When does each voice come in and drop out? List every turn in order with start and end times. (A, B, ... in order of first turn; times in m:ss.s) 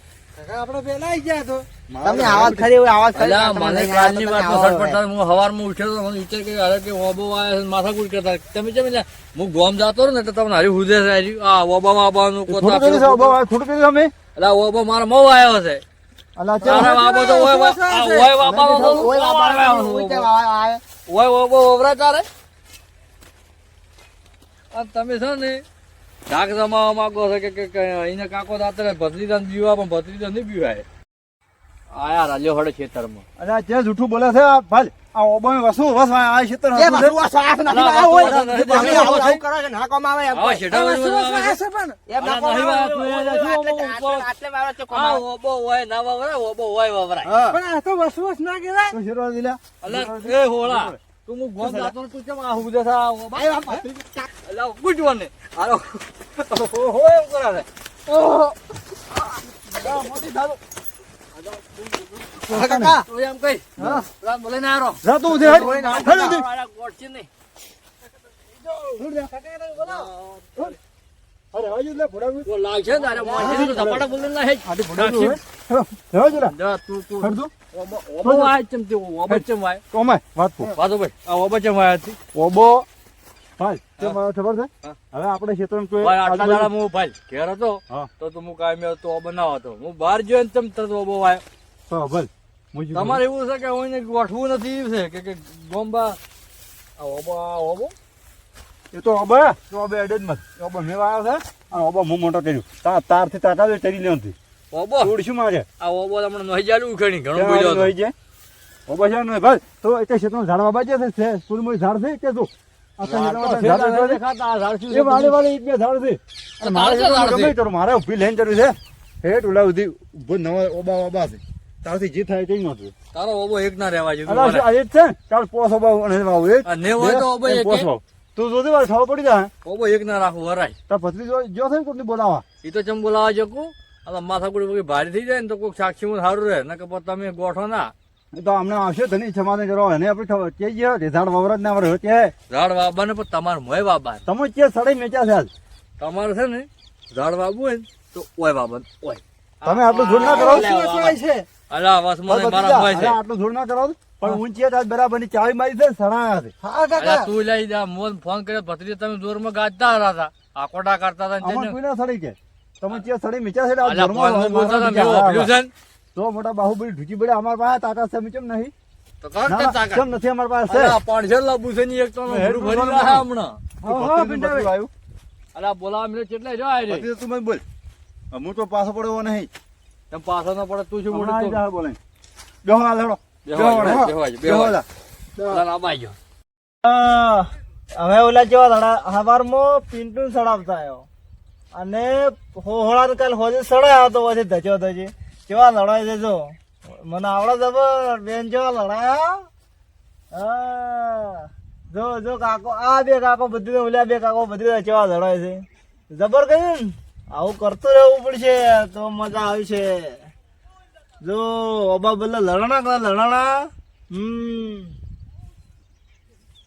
0:00.4-0:02.8 A
0:02.0-0:05.0 B
0:03.1-0:13.4 C
0:12.5-0:14.1 A
0:14.3-0:15.8 C
0:16.4-0:17.3 A
0:16.6-0:20.8 B
0:16.6-0:20.3 C
0:18.3-0:19.1 A
0:21.1-0:22.2 C
0:24.7-0:25.6 C
0:26.3-0:30.8 C
0:31.9-0:33.2 C
0:33.4-0:37.2 A
0:36.7-0:45.2 B
0:37.6-0:39.4 C
0:37.7-0:39.4 A
0:40.3-0:41.6 C
0:42.2-0:44.3 C
0:44.9-0:47.3 C
0:47.2-0:47.6 B
0:48.3-0:48.9 B
0:48.9-0:51.0 A
0:49.8-0:53.8 C
0:51.6-0:51.9 A
0:53.3-0:54.3 B
0:54.4-0:57.6 C
0:59.8-1:00.5 A
1:02.3-1:03.0 A
1:02.5-1:03.0 B
1:03.0-1:07.3 C
1:03.8-1:04.0 A
1:05.0-1:06.4 A
1:05.3-1:06.4 B
1:08.9-1:09.2 A
1:09.2-1:10.1 B
1:09.8-1:10.7 C
1:11.5-1:12.5 A
1:12.4-1:15.4 C
1:13.1-1:14.0 B
1:13.2-1:14.0 A
1:14.6-1:16.5 A
1:16.3-1:17.4 C
1:17.2-1:17.5 A
1:18.0-1:18.5 A
1:18.2-1:19.8 C
1:19.3-1:20.7 A
1:20.7-1:22.2 C
1:22.3-1:22.9 A
1:23.6-1:26.7 A
1:26.0-1:31.4 C
1:31.9-1:33.2 A
1:32.9-1:36.2 C
1:37.0-1:37.9 C
1:38.9-1:44.3 A
1:44.7-1:45.1 C
1:45.0-1:45.7 A
1:45.8-1:47.9 C
1:47.3-1:48.1 A
1:48.9-1:54.2 A
1:53.0-1:55.4 C
1:54.9-2:02.9 A
1:56.6-1:57.6 C
2:03.1-2:04.6 C
2:04.2-2:09.5 A
2:06.7-2:07.9 C
2:09.6-2:10.8 C
2:10.9-2:12.4 A
2:12.6-2:17.9 C
2:18.3-2:22.3 A
2:22.5-2:24.2 C
2:24.2-2:25.5 A
2:26.0-2:31.1 C
2:29.6-2:30.7 A
2:30.0-2:31.4 B
2:31.7-2:33.2 C
2:32.3-2:36.5 A
2:36.6-2:37.3 B
2:37.0-2:41.8 C
2:41.4-2:45.5 A
2:43.8-2:45.7 C
2:46.1-2:48.7 A
2:49.2-2:50.0 C
2:49.4-2:51.0 A
2:50.7-2:53.6 C
2:52.3-2:53.2 A
2:53.8-2:54.9 A
2:54.3-2:54.6 C
2:55.5-2:57.1 C
2:56.9-2:57.6 A
2:58.3-2:59.5 A
3:00.1-3:01.6 C
3:01.1-3:02.0 A
3:02.6-3:04.8 A
3:03.4-3:04.8 C
3:05.4-3:06.2 C
3:06.8-3:11.1 D
3:11.7-3:19.4 D
3:20.3-3:30.3 D
3:31.2-3:34.9 D